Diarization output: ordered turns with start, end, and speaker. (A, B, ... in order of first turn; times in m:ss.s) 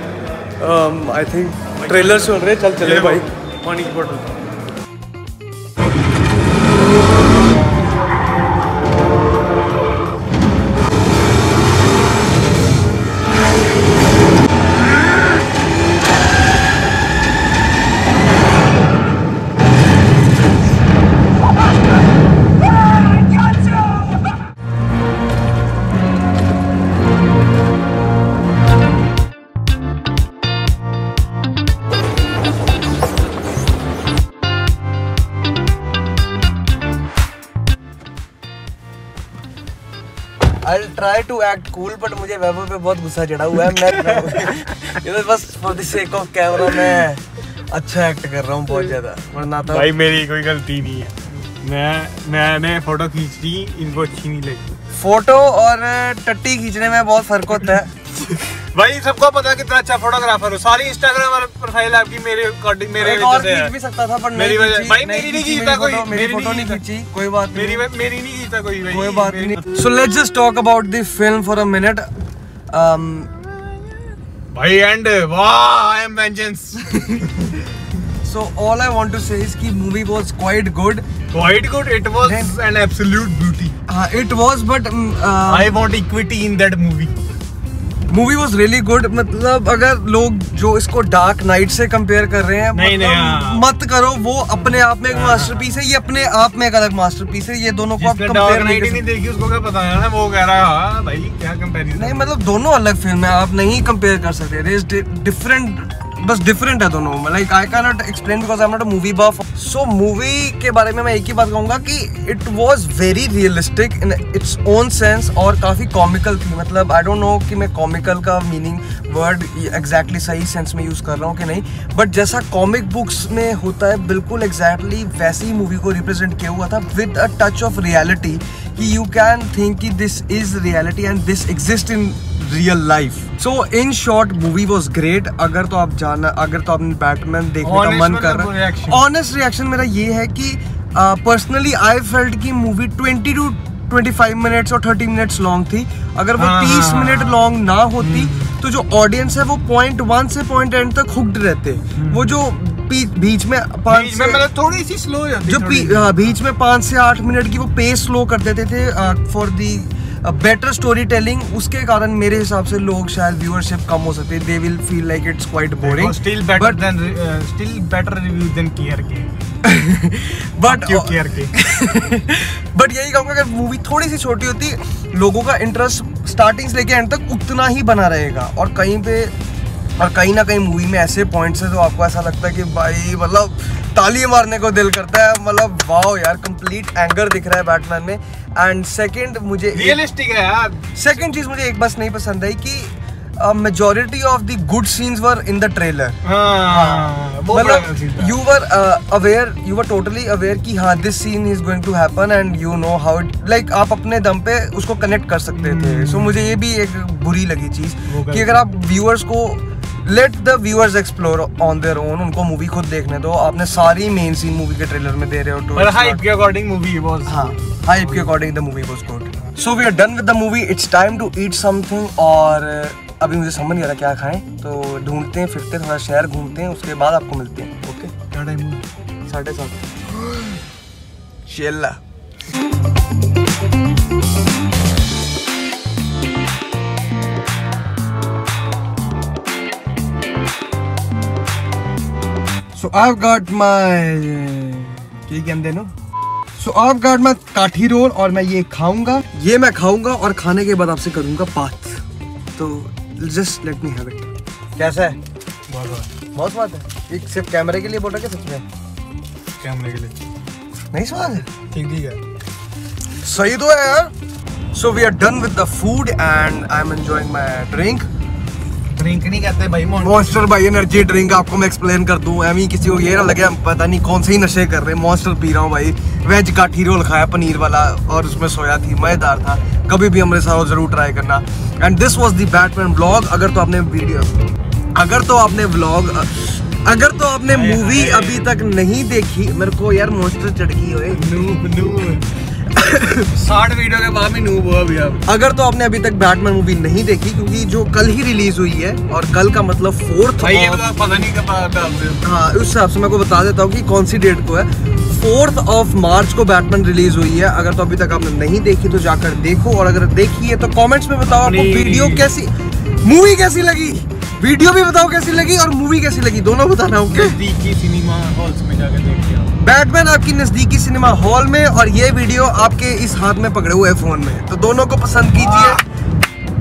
0:00.6-0:03.3 A
0:01.8-0:04.3 B
0:40.6-0:49.9 A
0:49.7-0:54.7 B
0:54.9-0:57.9 A
0:58.6-1:03.7 B
1:03.0-1:07.9 A
1:04.3-1:06.8 B
1:07.5-1:09.7 B
1:08.9-1:12.1 A
1:12.7-1:13.3 A
1:14.5-1:17.6 B
1:18.2-1:21.1 A
1:21.3-1:23.8 B
1:22.2-1:22.5 A
1:23.9-1:25.7 A
1:25.4-1:27.2 B
1:28.1-1:39.0 A
1:32.7-1:33.6 B
1:35.1-1:35.7 B
1:38.0-1:42.3 B
1:42.0-2:34.4 A
2:17.6-2:19.0 B
2:26.4-2:27.4 B
2:28.0-2:28.6 B
2:32.0-2:32.4 B
2:33.9-2:36.4 B
2:35.4-2:46.8 A
2:45.8-2:49.3 B
2:49.6-2:59.3 A
2:50.6-2:51.5 B
3:00.0-3:10.0 A
3:09.7-3:10.9 B
3:11.0-3:36.2 A
3:16.2-3:18.4 B
3:25.6-3:26.4 B
3:28.1-3:28.6 B
3:35.7-3:38.3 B
3:37.3-3:48.1 A
3:48.2-3:48.8 B
3:49.3-3:50.0 A
3:51.5-3:52.0 A
4:02.7-4:05.9 A
4:06.6-4:12.0 A
4:12.6-4:15.2 A
4:15.7-4:16.1 B
4:16.3-4:18.6 A
4:19.6-4:20.2 B
4:20.9-4:21.5 A
4:21.6-4:22.2 B
4:23.2-4:24.1 A
4:24.7-4:28.1 A
4:29.0-4:30.4 B
4:30.0-4:44.3 A
4:45.0-4:52.0 A
4:47.5-4:48.5 B
4:51.1-4:52.3 B
4:52.6-4:53.3 A
4:53.3-4:55.2 B
4:55.3-5:00.8 A
5:00.4-5:02.2 B
5:02.2-5:17.4 A
5:11.4-5:12.4 B
5:17.1-5:19.6 B
5:19.6-5:25.8 A
5:25.3-5:25.8 B